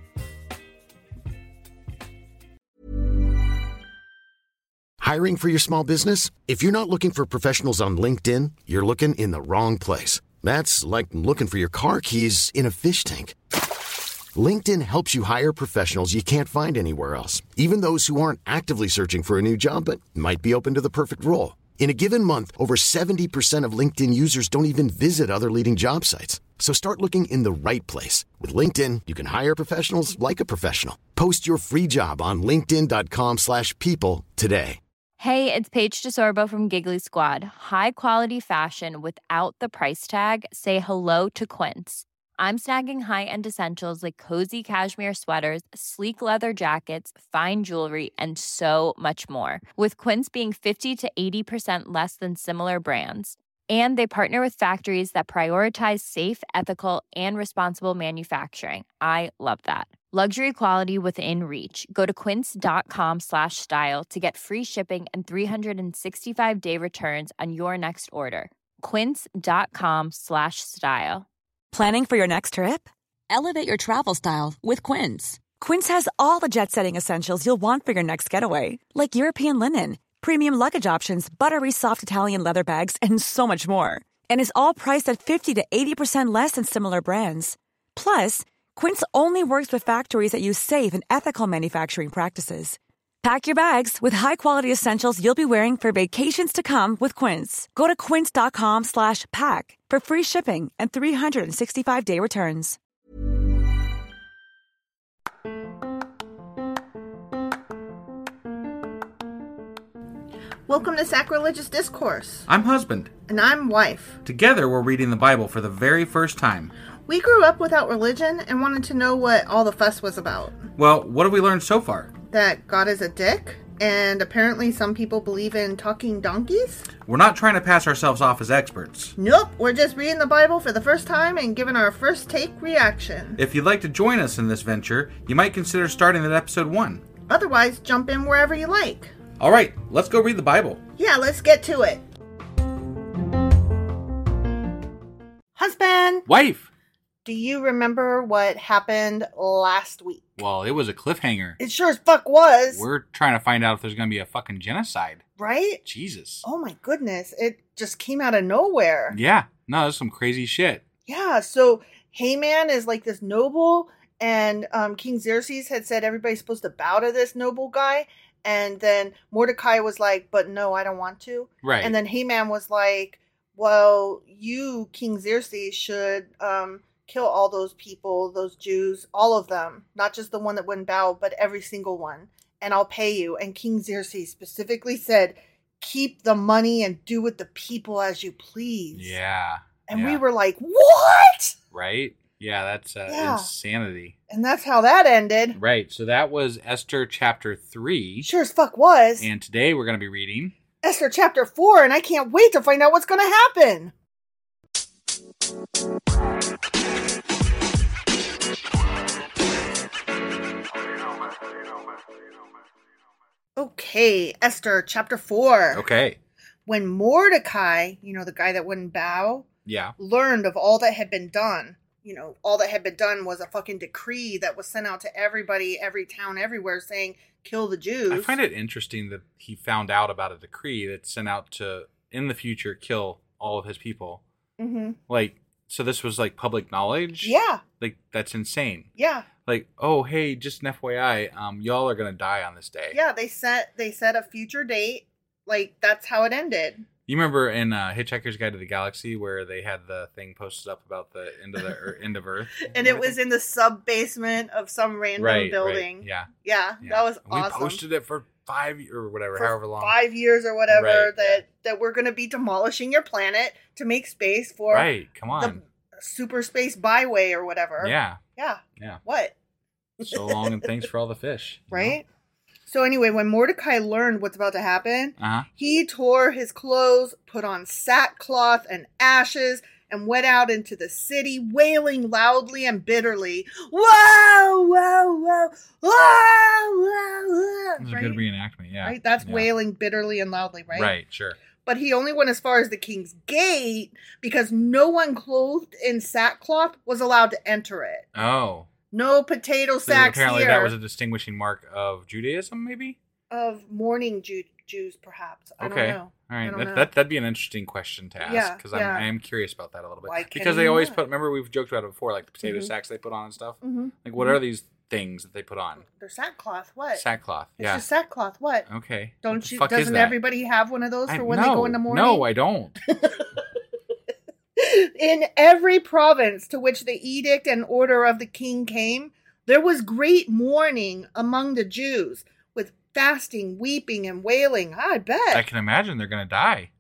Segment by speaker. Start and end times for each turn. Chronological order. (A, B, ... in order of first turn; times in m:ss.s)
0:05.0-0:13.4 A
0:14.3-0:34.8 A
0:35.2-1:11.3 B
1:11.7-1:42.8 C
1:50.7-1:52.5 D
1:52.5-1:53.1 E
1:53.3-1:54.2 D
1:54.2-1:56.7 E
1:57.1-2:00.6 D
2:00.8-2:02.1 E
2:02.3-2:06.9 D
2:07.0-2:09.2 E
2:09.2-2:13.4 D
2:13.4-2:17.0 E
2:17.3-2:19.1 D
2:19.4-2:20.8 E
2:21.0-2:22.0 D
2:25.6-2:26.2 D
2:26.3-2:26.7 E
2:27.2-2:30.4 D
2:30.4-2:31.6 E
2:31.6-2:32.8 D
2:32.7-2:35.2 E
2:35.4-2:35.8 D
2:35.8-2:36.4 E
2:36.4-2:39.2 D
2:39.1-2:40.8 E
2:41.1-3:09.2 D
2:51.6-2:52.0 E
3:09.0-3:10.2 E
3:09.9-3:11.6 D
3:11.7-3:14.2 E
3:13.1-3:13.5 D
3:14.3-3:15.6 D
3:15.6-3:18.3 E
3:18.2-3:19.3 D
3:19.2-3:20.6 E
3:20.8-3:23.9 D
3:33.6-3:35.8 D
3:35.7-3:36.2 E
3:36.7-3:39.5 D
3:39.6-3:40.0 E
3:40.0-3:48.4 D
3:48.1-3:54.2 E
3:54.6-3:55.0 D
3:55.1-3:58.9 E
3:57.2-3:57.6 D
3:59.0-3:59.3 D
3:59.4-4:03.0 E
4:02.9-4:06.8 D
4:07.1-4:13.2 E
4:12.6-4:17.8 D
4:15.2-4:16.3 E
4:16.8-4:20.0 E
4:19.4-4:29.4 D
4:20.7-4:21.4 E
4:24.7-4:25.6 E
4:27.8-4:28.2 E
4:30.0-4:30.7 D
4:30.0-4:32.0 E
4:31.7-4:32.1 D
4:32.7-4:48.2 D
4:35.2-4:35.5 E
4:47.8-4:49.5 E
4:48.8-4:50.9 D
4:50.7-4:51.4 E
4:51.6-4:58.1 D
4:58.2-4:58.7 E
4:58.9-5:00.7 D
4:59.9-5:03.0 E
5:03.3-5:06.9 D
5:05.6-5:15.8 E
5:08.2-5:09.1 D
5:10.0-5:11.0 D
5:12.4-5:12.7 D
5:13.6-5:14.4 D
5:15.9-5:17.0 D
5:17.0-5:17.8 E
5:17.6-5:18.7 D
5:18.7-5:20.2 E
5:19.2-5:22.2 D
5:21.1-5:22.8 E
5:22.9-5:23.3 D
5:24.6-5:35.4 D
5:35.3-5:36.7 E